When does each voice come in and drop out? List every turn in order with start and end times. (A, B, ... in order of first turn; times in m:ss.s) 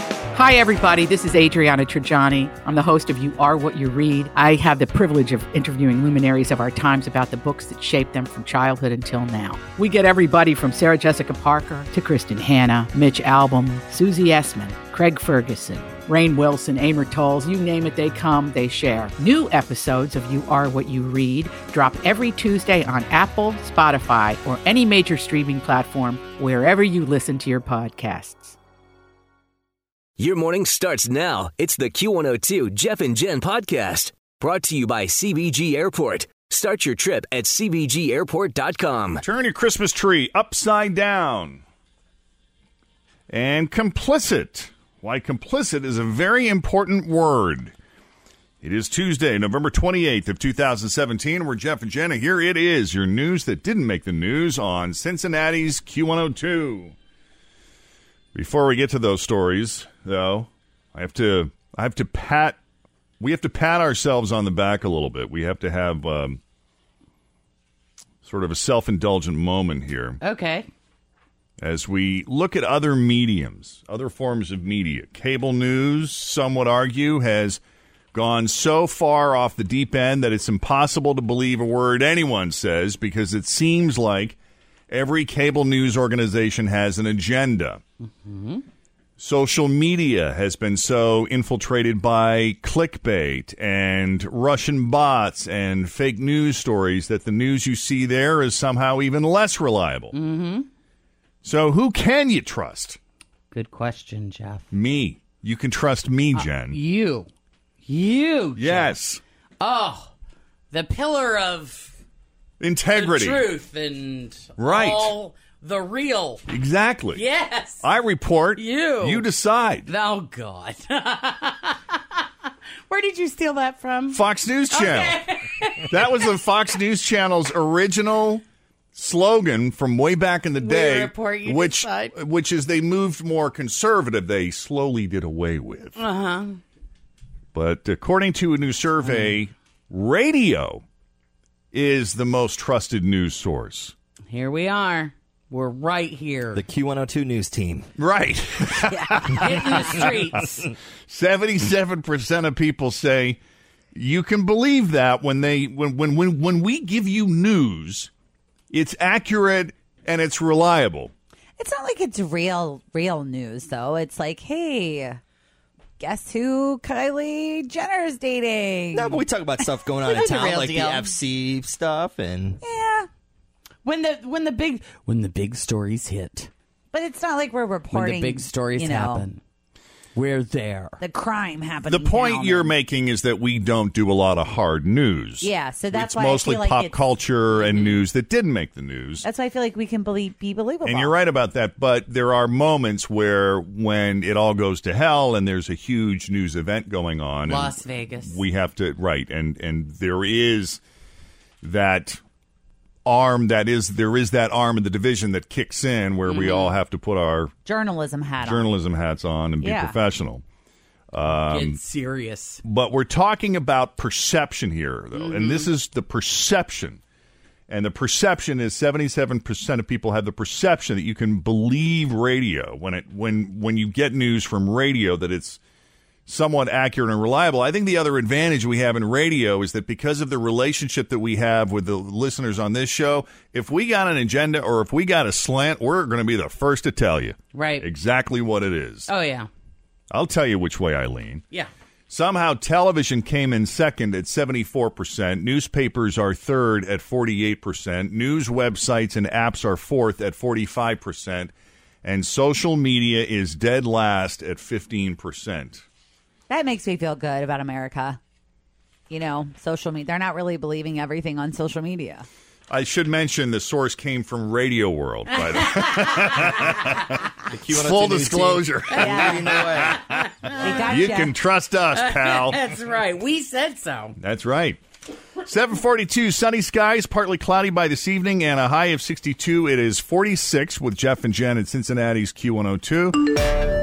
0:00.3-0:28.6 A
0:30.2-0:39.2 B
0:39.2-0:41.6 C
0:43.3-0:47.7 C
0:48.6-0:57.0 C
0:58.4-1:02.6 C
1:03.2-1:06.4 C
1:08.2-1:10.2 C
1:10.2-1:10.7 D
1:11.6-1:17.6 C
1:18.1-1:24.4 C
1:24.9-1:27.8 C
1:28.0-1:28.6 D
1:29.2-1:40.2 C
1:40.1-1:40.7 D
1:41.4-1:43.0 C
1:43.5-1:44.6 D
1:44.7-1:46.8 C
1:46.3-1:47.3 D
1:47.9-1:48.9 D
1:48.6-1:49.2 C
1:49.6-1:50.1 D
1:50.7-1:52.0 D
1:52.6-1:53.5 C
1:52.9-1:56.4 D
1:54.6-1:55.1 C
1:56.5-1:57.2 C
1:57.1-1:57.8 D
1:57.8-1:59.9 C
1:58.6-1:59.3 D
1:59.9-2:02.2 D
2:02.9-2:06.3 D
2:04.1-2:05.2 C
2:05.9-2:08.4 C
2:09.0-2:16.0 C
2:10.6-2:12.2 D
2:16.0-2:16.6 D
2:17.5-2:20.8 C
2:19.0-2:19.4 D
2:21.7-2:23.9 C
2:24.3-2:26.6 D
2:26.6-2:27.9 E
2:28.0-2:30.3 C
2:29.3-2:30.7 D
2:29.5-2:29.8 E
2:31.1-2:33.4 C
2:33.9-2:38.1 C
2:38.7-2:41.1 C
2:41.6-2:45.2 F
2:46.0-2:49.7 F
2:48.9-2:52.6 E
2:50.0-2:51.2 D
2:52.6-2:53.1 F
2:53.8-2:56.5 D
2:56.9-2:59.3 F
2:57.9-2:59.4 D
3:00.2-3:01.0 D
3:01.0-3:02.8 F
3:01.9-3:09.3 C
3:05.4-3:07.0 F
3:07.6-3:08.0 D
3:09.2-3:11.2 F
3:10.8-3:20.8 C
3:17.4-3:18.4 D
3:21.6-3:22.2 C
3:23.1-3:27.5 C
3:26.3-3:26.8 D
3:27.7-3:28.7 F
3:28.4-3:30.4 C
3:29.6-3:30.0 F
3:31.1-3:31.8 C
3:31.3-3:32.6 D
3:32.6-3:37.0 C
3:35.1-3:35.7 D
3:37.7-3:45.6 C
3:46.3-3:59.1 C
3:57.5-3:57.9 D
3:59.1-3:59.5 D
4:00.1-4:01.4 C
4:02.1-4:11.5 C
4:12.0-4:15.8 C
4:16.5-4:18.2 F
4:19.1-4:22.3 F
4:22.7-4:27.2 C
4:25.6-4:26.7 D
4:27.5-4:30.0 E
4:27.7-4:32.6 C
4:28.9-4:31.0 D
4:29.0-4:29.4 F
4:30.6-4:31.4 F
4:32.0-4:34.2 D
4:34.2-4:34.8 C
4:35.4-4:43.3 C